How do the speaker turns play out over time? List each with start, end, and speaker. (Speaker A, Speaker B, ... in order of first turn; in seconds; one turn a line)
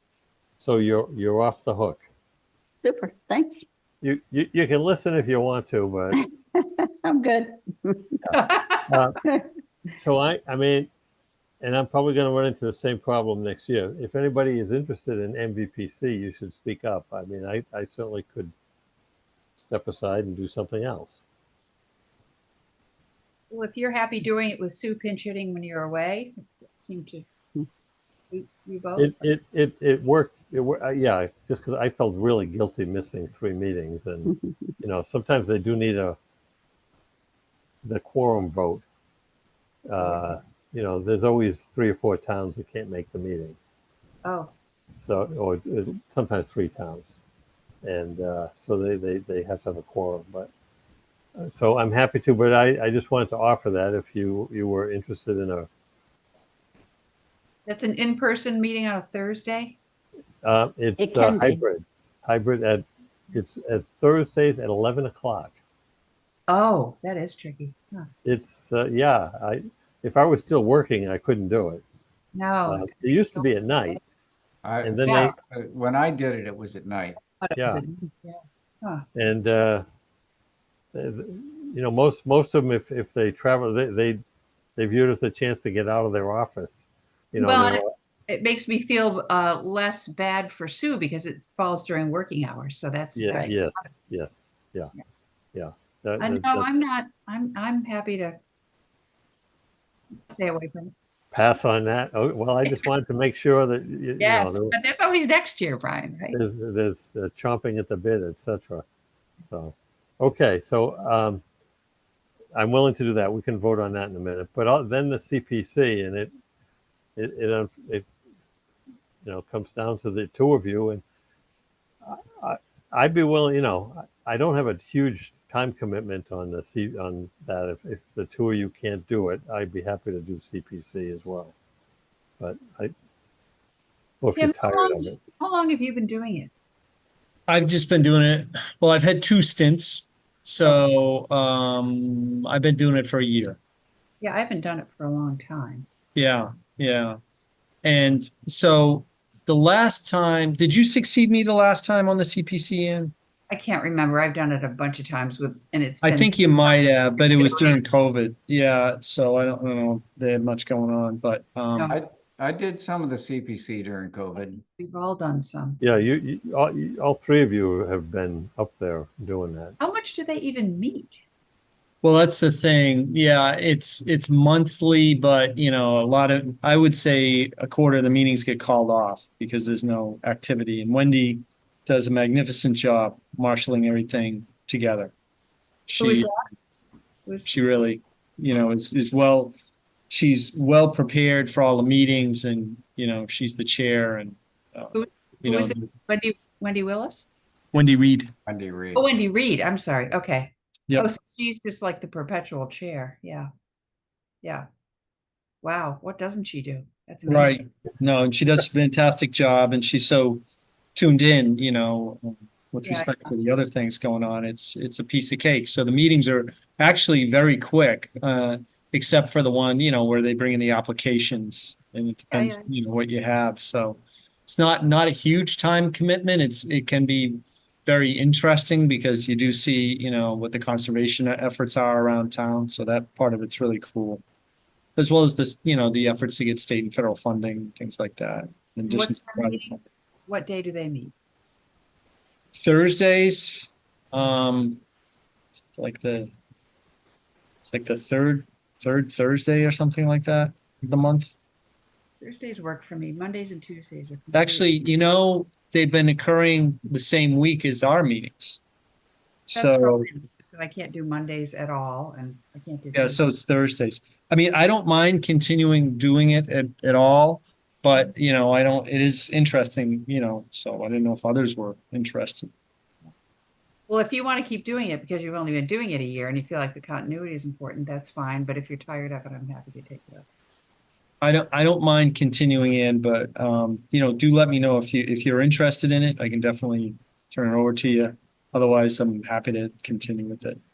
Speaker A: 0.6-2.0
Speaker B: 2.8-3.6
Speaker A: 4.0-6.2
Speaker B: 6.2-8.2
Speaker A: 8.2-9.2
Speaker C: 8.3-9.0
Speaker A: 10.0-10.9
Speaker A: 11.6-18.5
Speaker A: 19.6-21.2
Speaker C: 23.5-27.2
Speaker C: 28.2-29.2
Speaker A: 29.0-36.2
Speaker A: 37.8-38.8
Speaker A: 39.9-43.6
Speaker C: 44.2-44.5
Speaker A: 44.9-47.2
Speaker A: 47.8-50.5
Speaker A: 51.4-55.7
Speaker C: 57.6-59.8
Speaker A: 60.4-65.5
Speaker B: 61.0-61.6
Speaker C: 66.5-68.1
Speaker A: 68.2-71.8
Speaker C: 72.3-73.5
Speaker A: 72.7-74.0
Speaker D: 74.6-77.2
Speaker A: 74.8-75.3
Speaker C: 75.0-75.3
Speaker C: 77.4-79.0
Speaker A: 77.5-77.8
Speaker A: 79.1-79.8
Speaker A: 80.9-84.2
Speaker A: 84.8-87.9
Speaker C: 87.4-93.6
Speaker A: 93.2-94.9
Speaker A: 95.5-96.7
Speaker C: 96.2-98.4
Speaker C: 100.1-100.9
Speaker A: 101.3-104.7
Speaker C: 104.2-106.4
Speaker A: 106.3-108.8
Speaker A: 109.5-111.4
Speaker A: 112.5-116.3
Speaker A: 117.2-118.0
Speaker A: 119.2-121.0
Speaker A: 122.0-131.5
Speaker A: 132.4-132.9
Speaker A: 134.2-135.2
Speaker C: 134.3-136.5
Speaker E: 137.5-143.6
Speaker C: 144.2-145.9
Speaker E: 146.1-147.2
Speaker E: 147.8-153.1
Speaker C: 153.5-157.8
Speaker E: 156.0-161.9
Speaker C: 161.7-162.0
Speaker D: 161.9-164.6
Speaker C: 164.4-165.8
Speaker A: 165.8-169.8
Speaker C: 169.8-171.2
Speaker E: 172.0-185.1
Speaker E: 185.9-186.3
Speaker C: 186.0-186.3
Speaker C: 187.2-187.6
Speaker E: 187.4-189.5
Speaker E: 190.1-195.8
Speaker C: 194.9-197.2
Speaker E: 197.7-198.3
Speaker D: 198.5-199.1
Speaker C: 198.9-203.5
Speaker C: 205.6-207.7
Speaker E: 207.3-210.4
Speaker E: 210.9-234.2
Speaker C: 212.8-213.2
Speaker C: 222.3-222.7
Speaker E: 234.9-239.8
Speaker C: 238.9-239.8
Speaker C: 240.3-241.1
Speaker E: 242.6-244.8
Speaker E: 245.7-246.3
Speaker E: 247.6-251.3
Speaker C: 252.2-254.7
Speaker E: 254.3-258.6
Speaker E: 259.5-260.1
Speaker C: 259.5-263.2
Speaker E: 262.9-272.5
Speaker C: 273.9-280.2
Speaker E: 281.2-290.6